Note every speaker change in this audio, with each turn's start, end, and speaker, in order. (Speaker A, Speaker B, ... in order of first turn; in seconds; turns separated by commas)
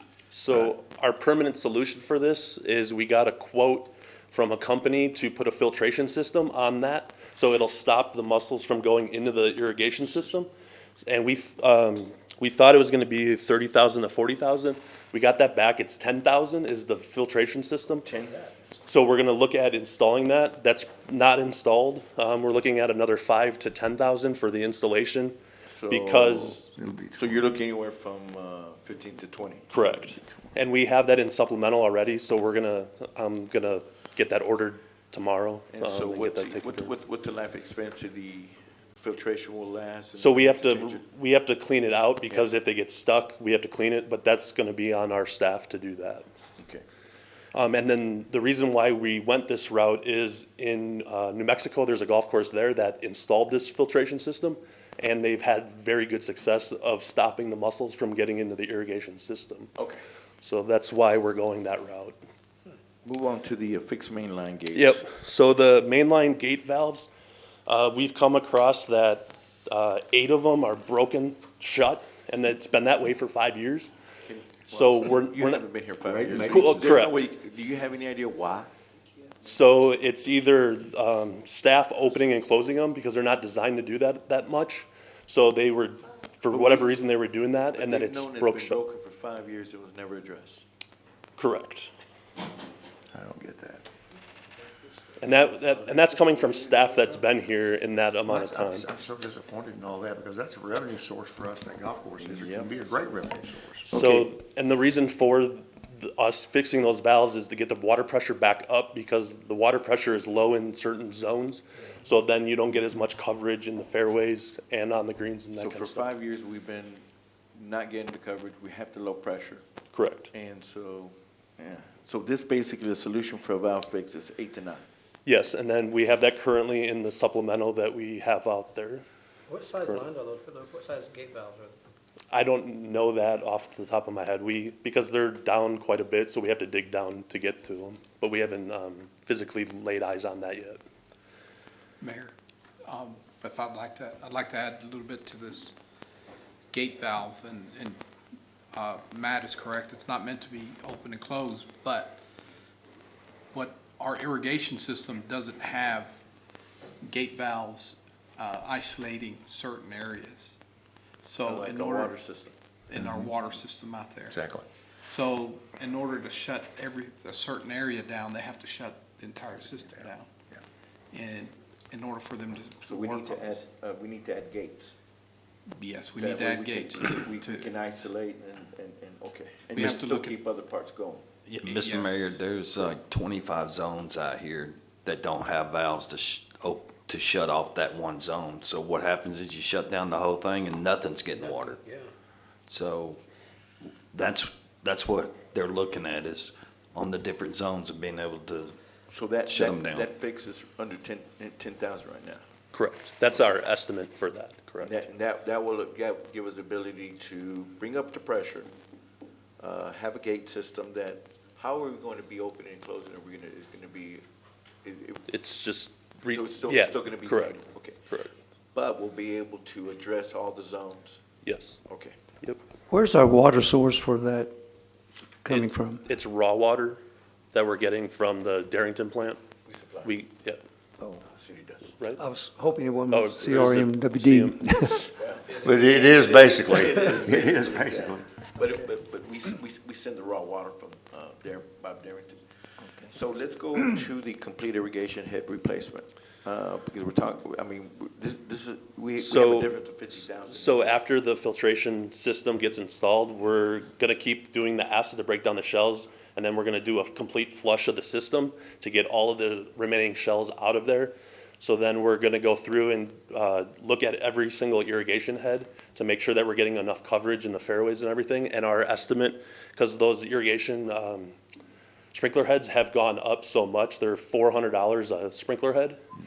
Speaker A: 0.3-10.5, Speaker A: 11.0-18.1, Speaker B: 18.0-18.6, Speaker A: 18.9-25.4, Speaker B: 25.7-29.7, Speaker A: 25.9-26.7, Speaker C: 26.8-27.5, Speaker A: 29.7-36.9, Speaker B: 35.7-41.0, Speaker A: 40.2-46.2, Speaker B: 46.6-46.9, Speaker A: 47.5-59.7, Speaker A: 60.4-62.2, Speaker B: 63.0-65.0, Speaker A: 64.7-67.1, Speaker A: 67.7-73.9, Speaker B: 74.2-78.7, Speaker A: 74.7-75.7, Speaker C: 76.0-77.0, Speaker A: 76.5-77.2, Speaker A: 79.4-88.8, Speaker B: 86.5-87.0, Speaker B: 87.7-90.7, Speaker A: 91.4-91.9, Speaker C: 93.1-93.9, Speaker A: 95.2-98.9, Speaker C: 95.9-96.9, Speaker C: 98.3-104.0, Speaker B: 102.2-102.7, Speaker A: 103.9-116.1, Speaker B: 103.9-104.3, Speaker B: 115.6-117.0, Speaker B: 117.5-119.6, Speaker A: 119.9-120.3, Speaker B: 120.3-124.8, Speaker A: 125.3-129.0, Speaker D: 129.5-131.8, Speaker A: 132.3-140.8, Speaker E: 142.0-142.3, Speaker E: 142.9-145.7, Speaker E: 146.7-148.0, Speaker E: 148.7-152.2, Speaker E: 153.5-156.1, Speaker E: 157.0-160.6, Speaker E: 161.2-162.2, Speaker B: 161.4-162.6, Speaker E: 162.9-164.4, Speaker C: 162.9-163.3, Speaker C: 164.3-164.7, Speaker E: 165.1-170.3, Speaker C: 169.6-170.6, Speaker E: 171.1-173.6, Speaker B: 172.8-175.0, Speaker E: 175.8-177.8, Speaker B: 176.2-181.2, Speaker E: 179.7-180.4, Speaker F: 181.5-191.8, Speaker E: 181.6-182.4, Speaker D: 191.3-192.1, Speaker F: 192.7-193.2, Speaker F: 194.1-198.8, Speaker B: 199.1-202.4, Speaker F: 199.5-200.1, Speaker A: 202.7-204.9, Speaker B: 203.3-203.5, Speaker B: 204.8-208.7, Speaker B: 209.6-214.2, Speaker B: 214.8-215.3, Speaker A: 215.3-217.6, Speaker B: 216.3-218.0, Speaker B: 218.7-221.2, Speaker A: 221.4-221.8, Speaker B: 221.9-222.2, Speaker G: 222.9-224.6, Speaker G: 225.4-226.0, Speaker A: 225.4-227.0, Speaker A: 227.5-229.4, Speaker B: 229.7-230.1, Speaker A: 230.0-230.6, Speaker B: 231.2-231.9, Speaker G: 232.2-235.1, Speaker A: 233.1-235.0, Speaker B: 235.2-242.4, Speaker C: 235.6-238.3, Speaker D: 235.8-236.9, Speaker B: 243.0-251.0, Speaker A: 249.2-271.4, Speaker A: 272.1-276.0